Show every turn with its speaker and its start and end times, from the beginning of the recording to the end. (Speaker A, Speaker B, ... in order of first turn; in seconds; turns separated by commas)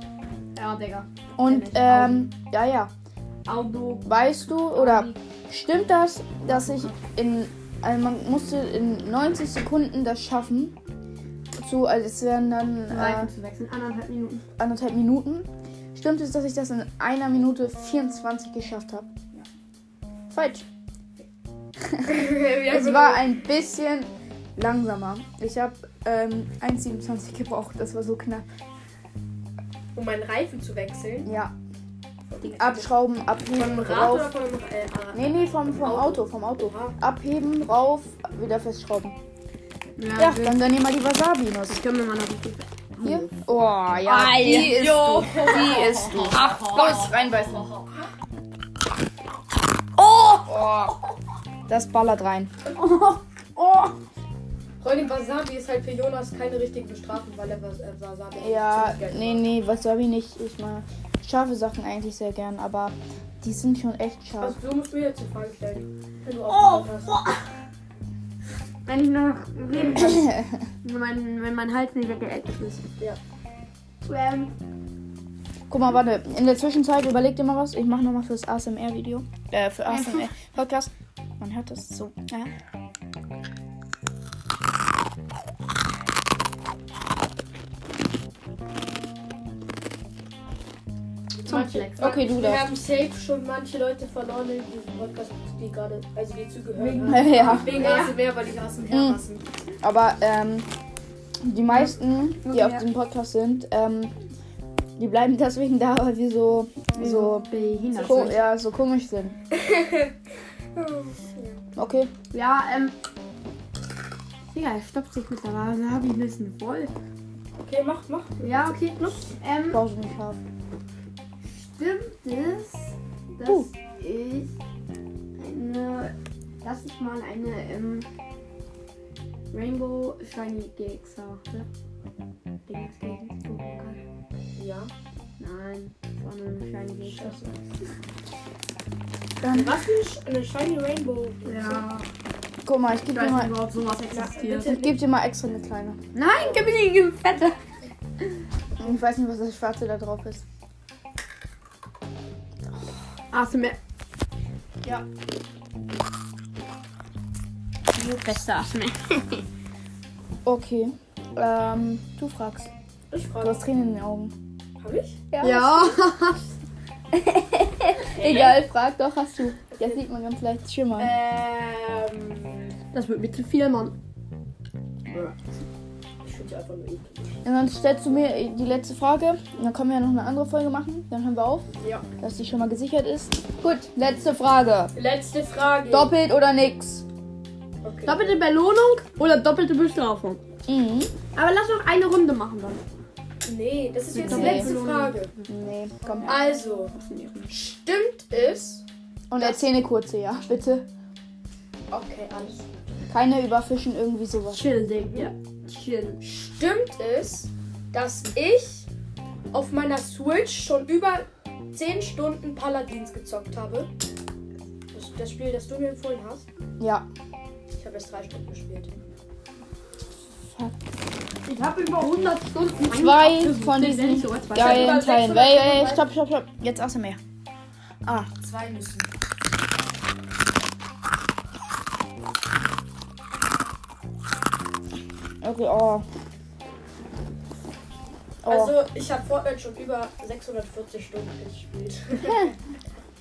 Speaker A: 0.6-2.3, Speaker B: 1.4-2.9, Speaker A: 3.5-4.1, Speaker B: 4.0-10.8, Speaker A: 4.7-5.2, Speaker A: 6.5-7.0, Speaker B: 11.6-13.3, Speaker A: 12.9-14.4, Speaker B: 14.6-19.1, Speaker C: 20.3-20.6, Speaker B: 21.9-28.5, Speaker C: 22.0-23.3, Speaker A: 30.0-30.3, Speaker C: 30.0-31.3, Speaker B: 31.2-31.6, Speaker C: 32.3-32.9, Speaker B: 32.4-34.3, Speaker C: 33.5-37.0, Speaker B: 35.1-39.2, Speaker A: 40.0-40.7, Speaker B: 40.2-41.8, Speaker A: 41.6-47.1, Speaker B: 43.0-47.7, Speaker C: 44.4-48.0, Speaker A: 50.0-50.5, Speaker B: 50.4-51.0, Speaker B: 51.7-52.5, Speaker A: 52.7-53.9, Speaker C: 54.8-59.5, Speaker B: 58.4-64.6, Speaker C: 64.4-67.1, Speaker A: 66.5-67.4, Speaker A: 68.9-72.8, Speaker B: 70.0-70.5, Speaker A: 74.0-74.5, Speaker B: 75.7-82.5, Speaker A: 79.9-80.3, Speaker C: 91.4-99.4, Speaker A: 91.5-91.9, Speaker B: 91.5-92.7, Speaker A: 96.8-98.2, Speaker B: 97.0-97.8, Speaker B: 98.9-99.2, Speaker B: 99.8-100.7, Speaker B: 101.4-104.1, Speaker A: 102.4-102.9, Speaker B: 105.0-107.5, Speaker A: 106.9-108.4, Speaker C: 107.9-108.4, Speaker B: 108.0-109.4, Speaker C: 109.5-110.1, Speaker C: 110.8-111.6, Speaker B: 111.8-112.1, Speaker A: 112.3-113.0, Speaker A: 114.5-116.9, Speaker C: 117.6-118.7, Speaker A: 118.4-119.8, Speaker B: 119.7-120.4, Speaker A: 121.4-124.5, Speaker A: 125.4-128.1, Speaker A: 129.5-131.7, Speaker A: 132.7-134.0, Speaker C: 134.6-134.9, Speaker A: 135.4-137.5, Speaker C: 137.0-137.6, Speaker B: 139.4-139.8, Speaker C: 139.5-141.9, Speaker A: 141.4-142.1, Speaker B: 142.7-143.6, Speaker A: 143.1-144.8, Speaker C: 144.1-145.0, Speaker B: 144.7-146.0, Speaker A: 146.1-147.6, Speaker C: 146.3-146.8, Speaker B: 148.8-150.4, Speaker A: 153.3-153.8, Speaker A: 157.9-159.4, Speaker B: 160.4-162.7, Speaker C: 163.1-163.7, Speaker B: 163.4-164.3, Speaker C: 164.8-165.2, Speaker B: 165.3-166.0, Speaker A: 165.4-166.5, Speaker B: 167.1-171.2, Speaker C: 168.0-168.6, Speaker C: 169.7-170.0, Speaker C: 171.0-172.8, Speaker A: 172.9-173.9, Speaker A: 175.1-175.4, Speaker C: 176.2-177.3, Speaker B: 177.4-184.9, Speaker C: 184.9-186.2, Speaker B: 185.9-187.1, Speaker C: 187.8-188.4, Speaker A: 188.1-190.4, Speaker B: 190.7-191.2, Speaker A: 191.3-192.8, Speaker C: 193.4-195.3, Speaker A: 194.1-195.5, Speaker B: 194.2-194.7, Speaker B: 195.5-196.5, Speaker C: 196.2-196.9, Speaker A: 196.9-197.6, Speaker C: 197.5-198.8, Speaker B: 199.3-200.9, Speaker C: 199.4-199.7, Speaker C: 201.9-203.0, Speaker B: 203.1-204.7, Speaker A: 204.5-206.2, Speaker C: 206.2-208.9, Speaker C: 209.5-213.9, Speaker C: 214.9-216.5, Speaker B: 216.8-217.1, Speaker C: 217.7-218.9, Speaker B: 220.4-220.8, Speaker A: 221.5-226.0, Speaker B: 222.8-227.2, Speaker C: 224.6-225.4, Speaker B: 228.0-228.3, Speaker C: 228.4-229.1, Speaker B: 235.4-236.1, Speaker B: 238.4-238.8, Speaker C: 238.5-242.6